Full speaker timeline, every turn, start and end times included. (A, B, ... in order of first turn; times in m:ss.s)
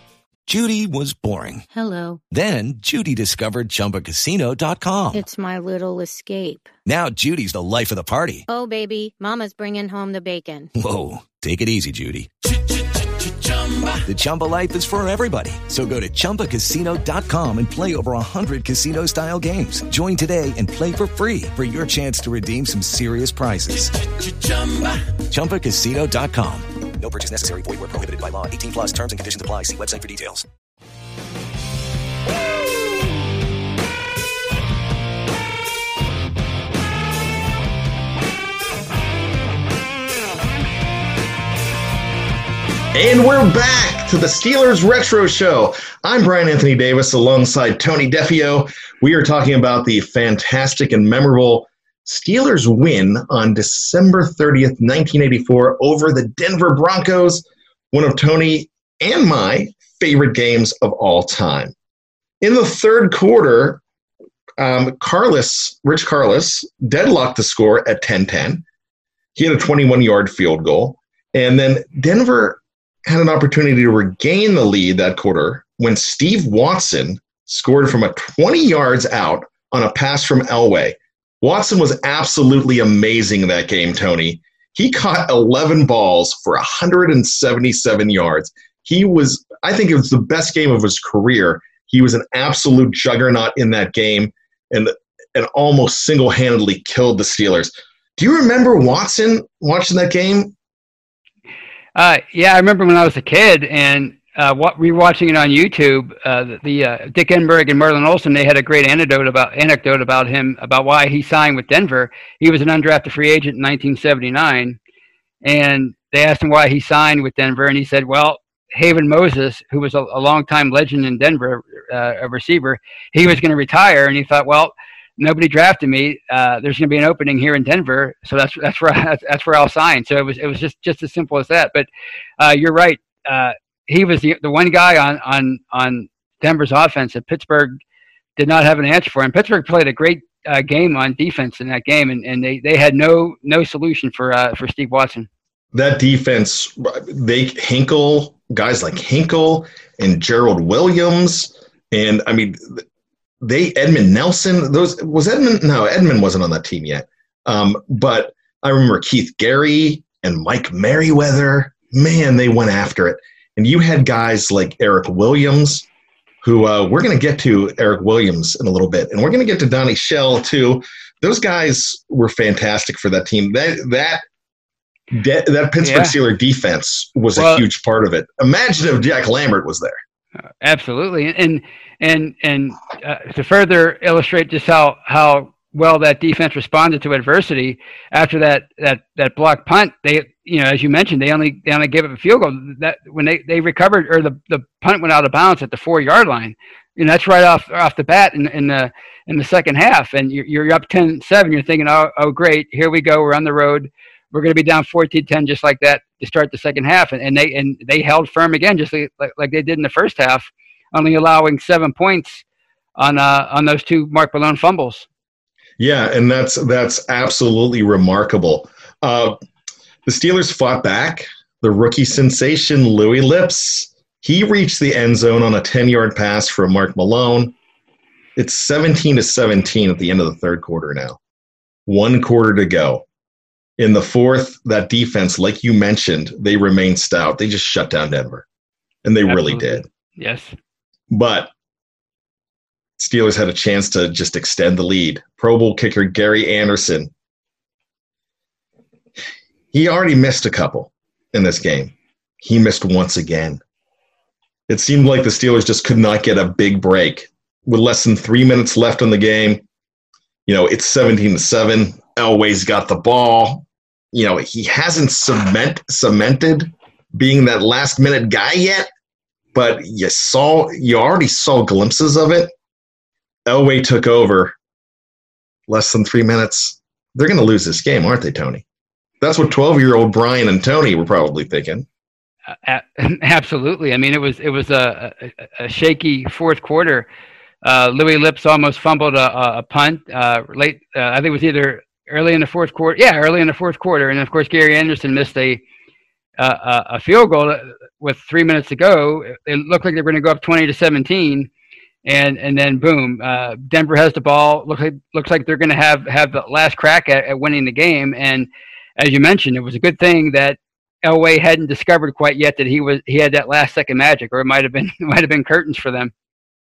0:00.5-0:01.6 A
0:01.7-0:02.2 B
0:02.3-0:05.2 A
0:05.1-0:06.7 B
0:06.8-0:08.4 A
0:08.5-0:10.7 B
0:10.8-0:12.3 A
0:14.0-0:23.9 A
0:25.3-0:30.4 A
0:42.9-1:01.7 C
1:02.4-1:03.8 C
1:04.6-1:08.6 C
1:09.4-1:40.5 C
1:41.9-1:54.8 D
1:55.4-2:11.9 D
2:12.4-2:17.8 D
2:18.4-2:25.3 D
2:25.7-2:32.8 C
2:33.4-2:45.8 C
2:46.4-2:54.2 C
2:55.1-3:00.0 C
2:55.8-2:56.1 D
2:57.3-2:57.6 D
3:00.6-3:32.4 D
3:33.0-3:35.0 D
3:35.8-3:39.4 C
3:40.0-3:47.5 C
3:48.4-3:51.2 C
3:51.8-3:53.0 C
3:53.8-3:58.4 C
3:59.0-3:59.8 C
3:59.3-4:00.5 D
4:01.1-4:01.5 C
4:03.0-4:07.1 C
4:09.7-4:13.6 C
4:14.7-4:19.6 C
4:20.4-4:28.9 C
4:29.5-4:32.5 C
4:33.4-4:34.5 C
4:35.7-4:38.6 C
4:39.2-4:41.8 C
4:42.6-4:47.1 D
4:47.6-4:55.6 D
4:56.4-5:01.5 D
5:02.0-5:16.1 D